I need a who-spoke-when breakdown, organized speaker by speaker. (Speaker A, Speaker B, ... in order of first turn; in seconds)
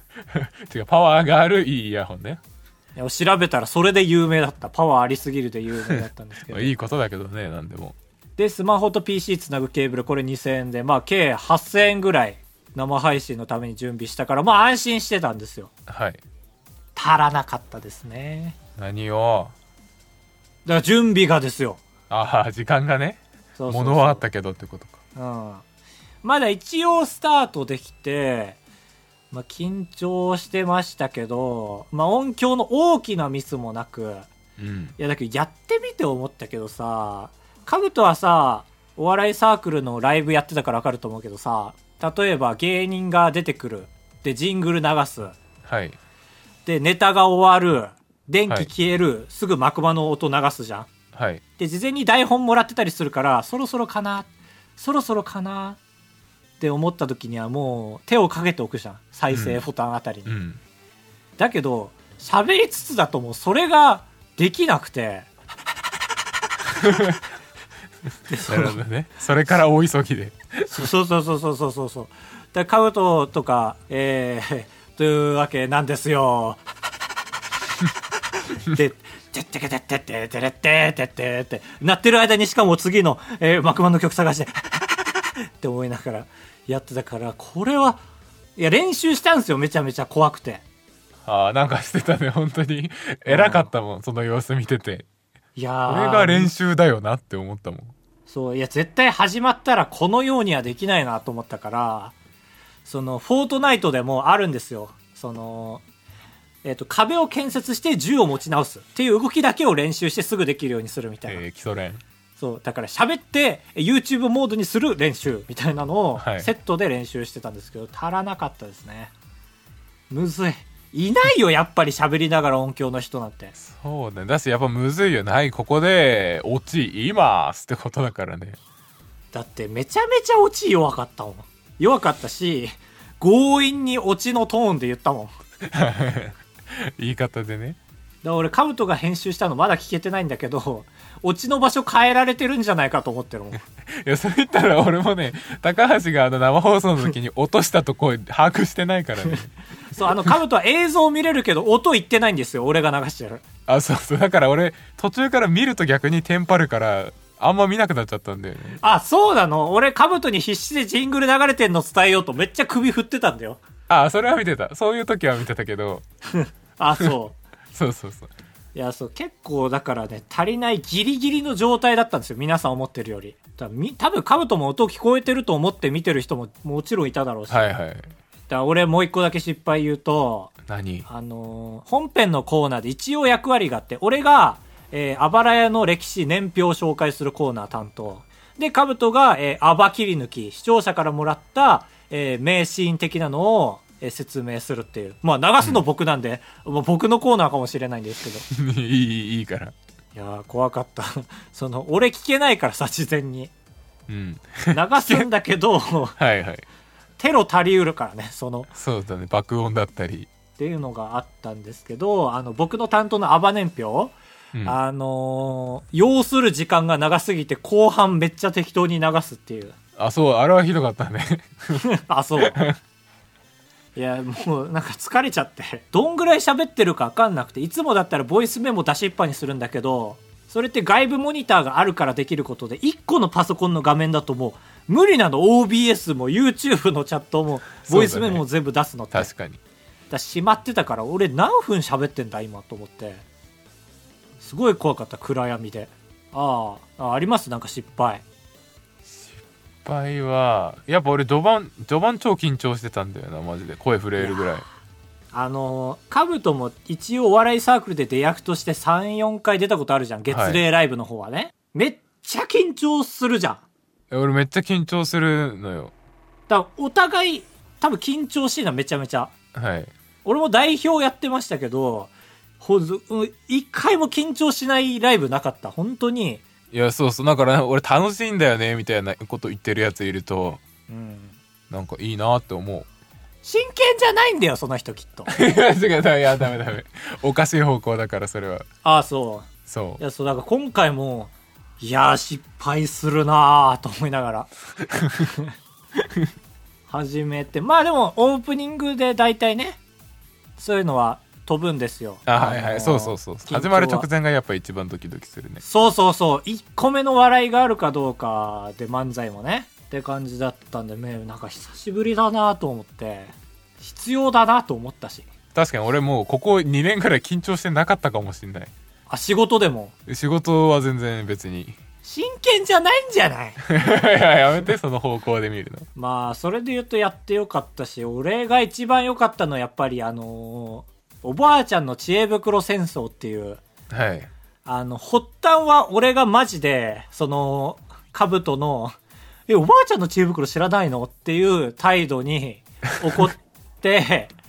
Speaker A: 0.3-2.4, 5.9-8.0, 15.9-16.2, 18.8-19.5, 22.1-25.0, 34.6-34.9, 45.6-46.0, 51.1-51.4, 59.3-59.6, 60.2-60.6, 66.7-67.2, 68.3-70.8, 91.2-95.0, 95.9-97.9, 111.3-112.0, 116.2-116.5, 123.6-128.6, 135.7-137.8, 143.9-149.5, 153.7-158.8, 163.9-166.0, 167.7-168.3, 177.5-178.1, 180.7-181.1, 198.5-199.7, 204.1-205.3, 206.2-206.7, 208.7-210.3, 220.0-221.9, 222.4-222.8, 237.8-238.4, 239.1-239.6, 249.8-254.7, 260.3-260.6, 264.1-265.9, 269.5-269.9, 276.7-280.6, 281.7-282.9, 285.3-288.7, 289.7-290.0, 294.9-295.3, 296.0-296.3, 302.2-305.6, 315.5-318.7, 320.1-321.8, 323.6-325.9, 333.9-334.3
Speaker B: 3.0-6.7, 8.4-15.7, 16.9-18.6, 20.6-21.8, 23.6-24.2, 25.1-25.6, 26.2-28.6, 29.3-34.3, 35.0-45.4, 46.6-50.9, 51.6-55.8, 56.6-60.3, 61.4-65.3, 68.3-68.8, 70.7-76.6, 78.5-88.0, 88.5-90.6, 93.3-93.7, 95.5-96.5, 98.3-102.1, 102.8-105.8, 106.6-111.4, 112.4-119.1, 120.1-123.5, 129.3-135.3, 138.2-143.6, 149.9-153.4, 158.8-163.6, 166.3-167.4, 168.7-177.7, 178.5-180.5, 181.1-198.4, 200.1-203.5, 204.7-206.2, 207.2-208.7, 210.6-219.7, 221.8-222.6, 223.9-239.3, 240.1-243.2, 244.4-248.2, 254.2-254.5, 255.3-263.6, 266.5-269.3, 270.2-276.4, 280.9-281.4, 283.4-285.3, 288.8-294.5, 295.2-295.5, 296.9-299.8, 300.6-304.1, 305.6-315.3, 319.1-319.9, 322.0-323.6, 325.9-333.6, 334.6-338.9, 339.5-344.3